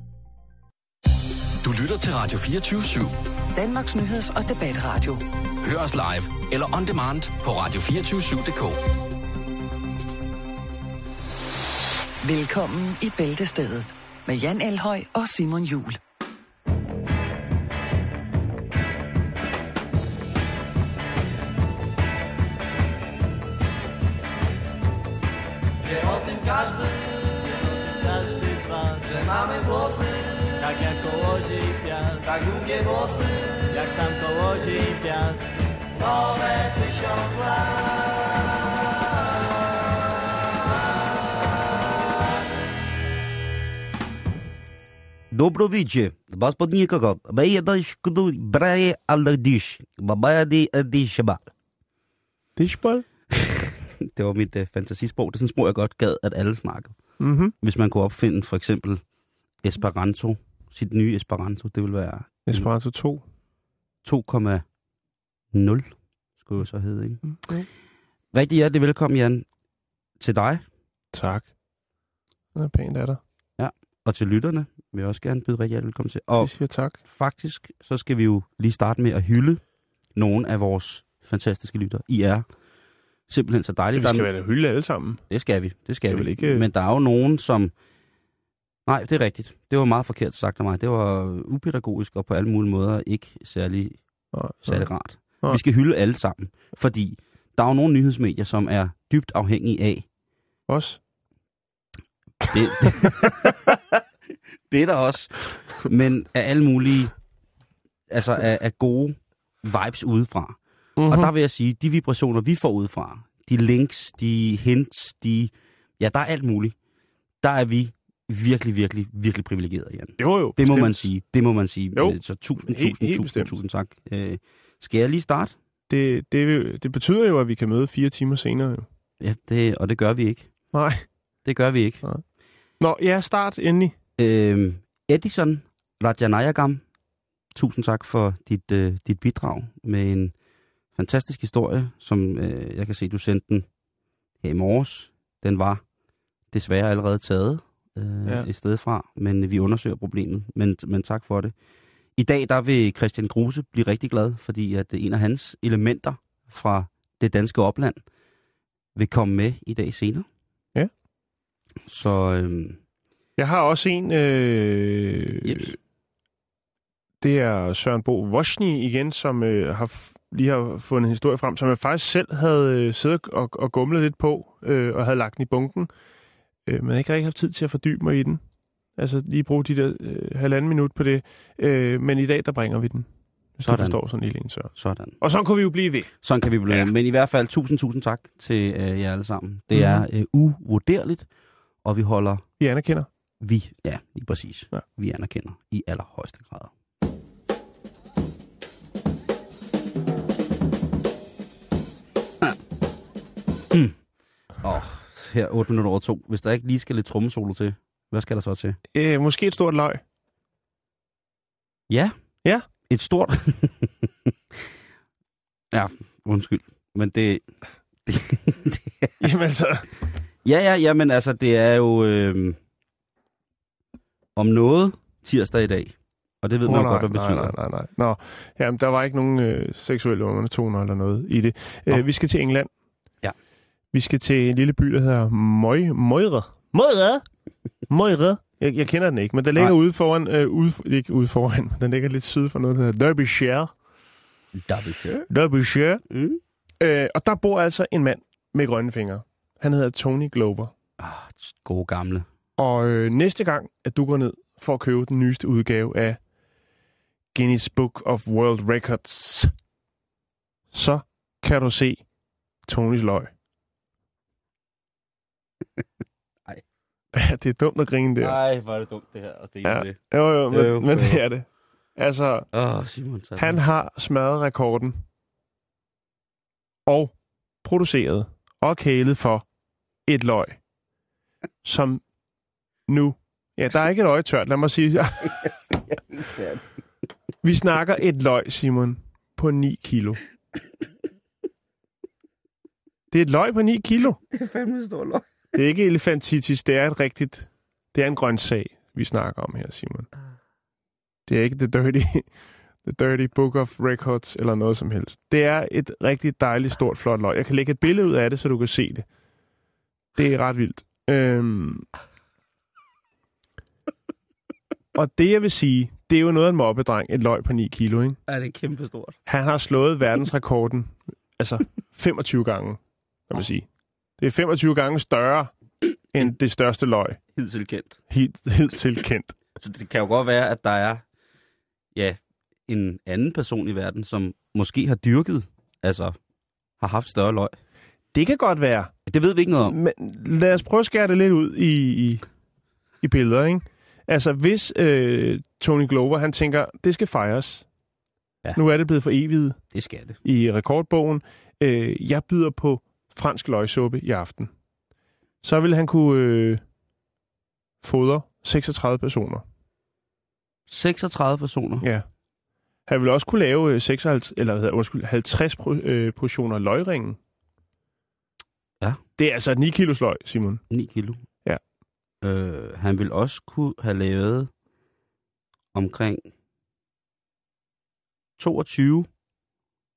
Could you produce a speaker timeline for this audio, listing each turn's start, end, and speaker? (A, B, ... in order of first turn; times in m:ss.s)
0:01.6-0:03.1 A
0:03.5-0:05.2 B
0:05.6-0:08.8 A
0:12.2-0:16.0 B
0:25.8-0:37.9 C
0:45.3-0:51.4 D
0:52.6-0:53.0 E
0:53.3-0:57.0 D
0:57.2-0:57.5 E
0:57.6-0:59.0 D
0:59.6-1:02.7 D
1:02.5-1:03.2 E
1:04.0-1:04.6 D
1:05.5-1:07.2 D
1:07.3-1:07.6 E
1:08.3-1:09.4 D
1:10.2-1:10.6 D
1:11.1-1:11.5 E
1:12.5-1:13.2 E
1:13.6-1:19.6 D
1:16.4-1:17.0 E
1:20.1-1:22.4 D
1:23.3-1:24.3 D
1:23.9-1:25.2 E
1:25.3-1:27.7 D
1:26.1-1:26.6 E
1:28.8-1:34.0 D
1:34.3-1:34.9 E
1:34.6-1:40.0 D
1:40.7-1:41.0 E
1:42.5-1:44.0 D
1:44.7-1:47.1 D
1:48.1-1:56.8 D
1:51.0-1:51.3 E
1:57.4-2:05.5 D
2:00.2-2:01.1 E
2:01.9-2:03.6 E
2:05.9-2:08.9 E
2:09.2-2:10.5 D
2:10.7-2:11.1 E
2:11.4-2:12.0 D
2:12.8-2:13.9 E
2:14.2-2:16.8 D
2:17.5-2:20.3 D
2:20.9-2:23.7 D
2:24.4-2:25.8 D
2:26.5-2:31.5 D
2:32.2-2:38.0 D
2:38.9-2:40.3 D
2:41.8-2:42.8 D
2:43.4-2:45.7 E
2:45.4-2:45.7 D
2:47.2-2:55.9 E
2:56.6-2:58.4 E
2:59.0-3:06.1 E
3:03.6-3:04.0 D
3:04.7-3:05.2 D
3:06.2-3:11.3 D
3:09.7-3:10.0 E
3:11.8-3:12.4 D
3:12.6-3:13.1 E
3:13.4-3:16.7 D
3:23.7-3:24.0 D
3:24.6-3:28.8 D
3:28.9-3:30.0 E
3:31.9-3:32.1 D
3:32.9-3:34.3 D
3:35.7-3:37.4 D
3:38.0-3:39.1 D
3:39.2-3:39.9 E
3:40.4-3:42.6 D
3:44.4-3:47.5 D
3:46.6-3:52.7 E
3:53.9-3:57.2 E
3:57.9-4:03.7 E
4:04.5-4:05.2 D
4:05.3-4:06.0 E
4:06.1-4:06.4 D
4:06.8-4:10.7 E
4:11.0-4:12.3 D
4:12.6-4:16.2 E
4:17.3-4:19.5 E
4:20.7-4:22.0 E
4:22.7-4:23.3 E
4:27.1-4:28.4 E
4:28.2-4:30.0 D
4:29.6-4:32.5 E
4:30.5-4:31.2 D
4:32.5-4:33.6 D
4:33.4-4:35.0 E
4:36.9-4:37.1 E
4:37.6-4:39.4 E
4:40.1-4:40.6 E
4:41.6-4:42.0 E
4:42.9-4:45.4 E
4:45.3-4:46.6 D
4:47.4-4:50.2 E
4:53.1-4:54.2 E
4:54.3-4:55.2 D
4:55.5-5:00.1 E
5:01.3-5:02.3 E
5:02.8-5:09.0 E
5:10.2-5:11.9 E
5:14.9-5:18.2 E
5:18.3-5:19.2 D
5:19.2-5:23.7 E
5:24.2-5:25.5 E
5:26.1-5:27.2 E
5:27.3-5:28.0 D
5:28.1-5:29.3 E
5:29.6-5:31.0 D
5:31.9-5:36.2 D
5:36.8-5:37.6 D
5:38.1-5:38.9 E
5:39.0-5:39.8 D
5:39.6-5:42.2 E
5:43.0-5:47.6 E
5:48.5-5:49.6 E
5:49.7-5:50.2 D
5:50.2-5:54.5 E
5:55.4-5:56.6 E
5:57.8-5:59.4 E
6:00.7-6:01.9 D
6:01.8-6:02.1 E
6:02.9-6:07.2 E
6:09.2-6:10.6 E
6:10.7-6:11.2 D
6:12.2-6:14.5 D
6:15.7-6:16.3 D
6:18.4-6:19.1 D